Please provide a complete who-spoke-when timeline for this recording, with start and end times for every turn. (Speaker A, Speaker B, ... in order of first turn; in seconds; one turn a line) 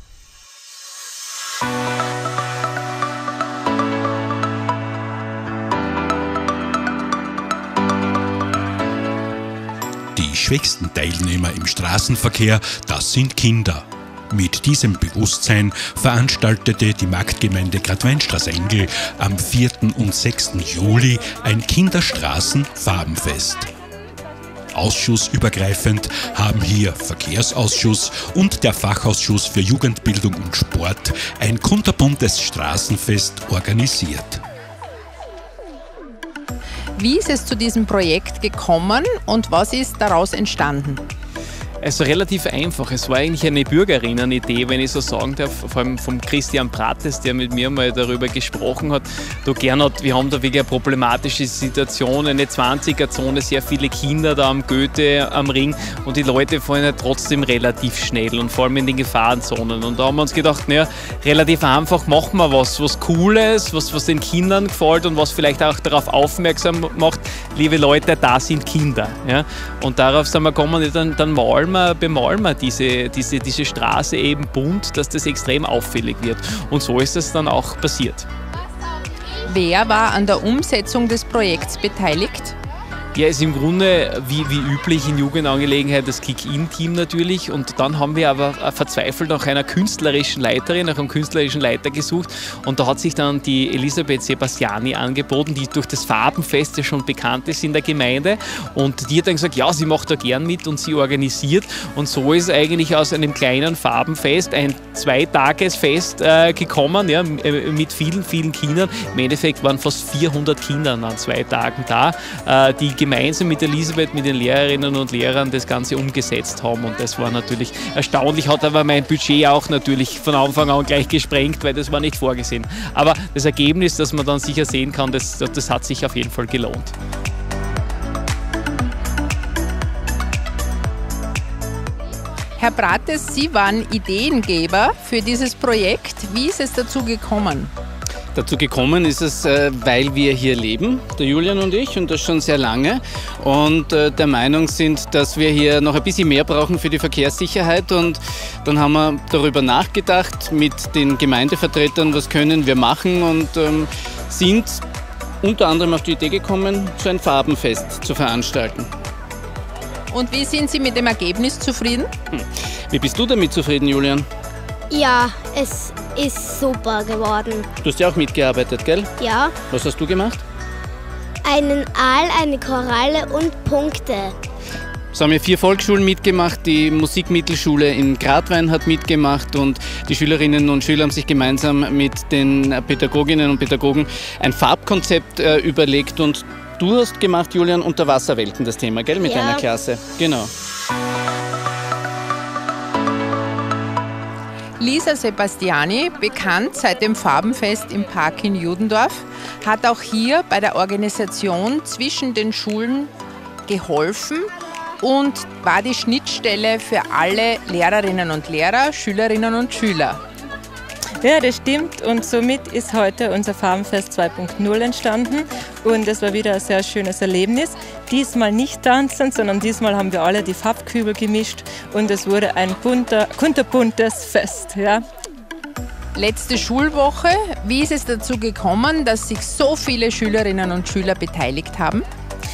Speaker A: 10.2-23.7
Speaker A: 24.7-34.4
Speaker B: 37.0-41.0
Speaker C: 41.8-78.3
Speaker B: 79.5-82.5
Speaker C: 83.1-126.9
Speaker B: 132.6-137.7
Speaker D: 138.3-154.8
Speaker D: 155.4-158.9
Speaker B: 160.1-162.1
Speaker D: 162.3-164.3
Speaker E: 164.9-167.7
Speaker D: 167.8-169.1
Speaker E: 169.2-169.5
Speaker D: 169.7-170.4
Speaker E: 171.4-174.3
Speaker D: 175.1-190.5
Speaker B: 194.8-203.1
Speaker B: 203.7-204.5
Speaker B: 205.0-210.2
Speaker F: 211.2-225.0
Speaker B: 226.1-232.1